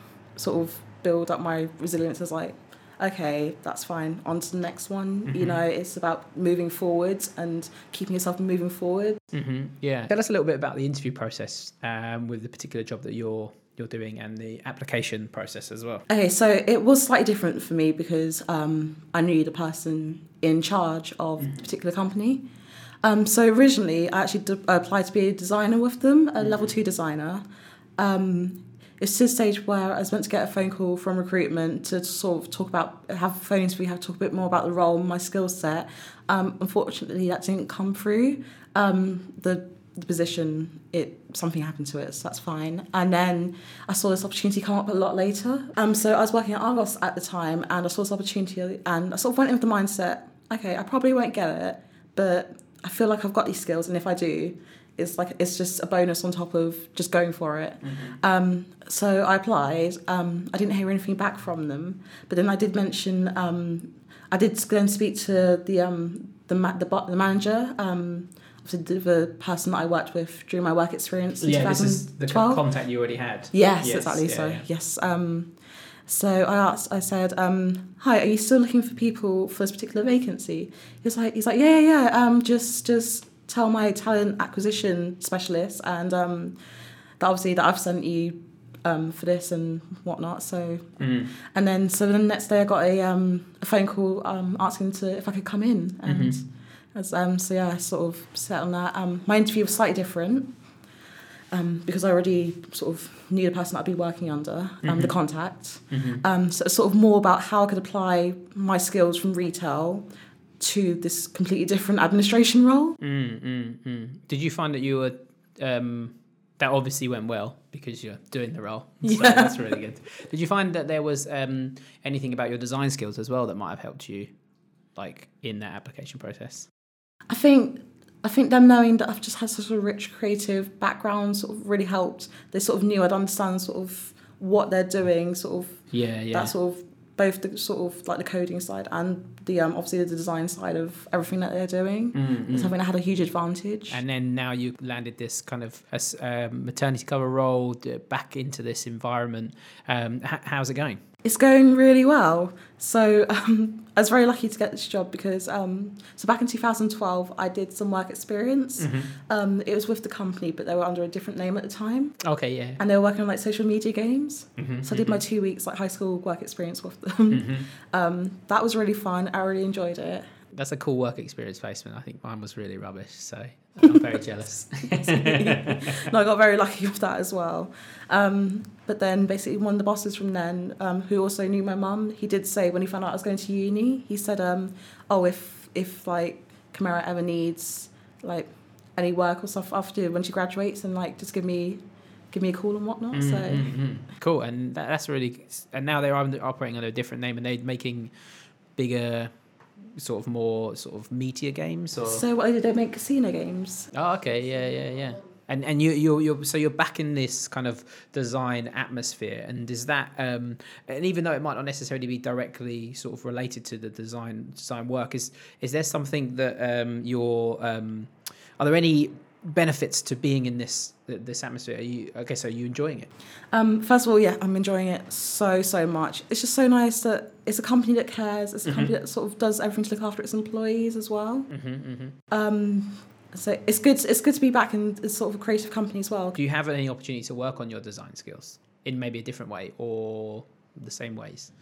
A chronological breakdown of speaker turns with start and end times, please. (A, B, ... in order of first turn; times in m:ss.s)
0:00.4-0:09.2 A
0:05.3-0:05.6 B
0:09.3-0:16.0 B
0:16.1-0:22.4 A
0:23.0-0:27.4 A
0:26.4-0:26.7 B
0:28.0-1:12.6 A
0:57.8-0:58.2 B
1:11.4-1:14.6 B
1:13.5-1:15.5 A
1:16.1-1:26.6 A
1:27.2-1:40.6 A
1:31.0-1:31.3 B
1:36.0-1:36.4 B
1:41.5-1:50.0 A
1:44.8-1:45.1 B
1:45.9-1:46.2 B
1:50.6-1:53.0 A
1:53.0-2:04.3 B
1:59.0-1:59.7 A
2:05.0-2:06.7 B
2:07.3-2:24.0 A
2:15.9-2:16.5 B
2:22.1-2:22.7 B
2:23.9-2:31.0 B
2:31.2-2:42.2 A
2:38.8-2:39.1 B
2:42.2-2:42.8 B
2:42.7-2:50.3 A
2:44.6-2:45.2 B
2:47.3-2:47.7 B
2:50.5-2:56.1 B
2:55.0-3:13.8 A
3:13.1-3:18.1 B
3:18.7-3:19.3 B
3:20.0-3:22.2 B
3:22.0-3:23.9 A
3:23.9-3:43.1 B
3:43.5-3:51.5 A
3:48.6-3:48.9 B
3:51.5-3:52.2 B
3:52.3-3:56.4 A
3:56.3-4:01.5 B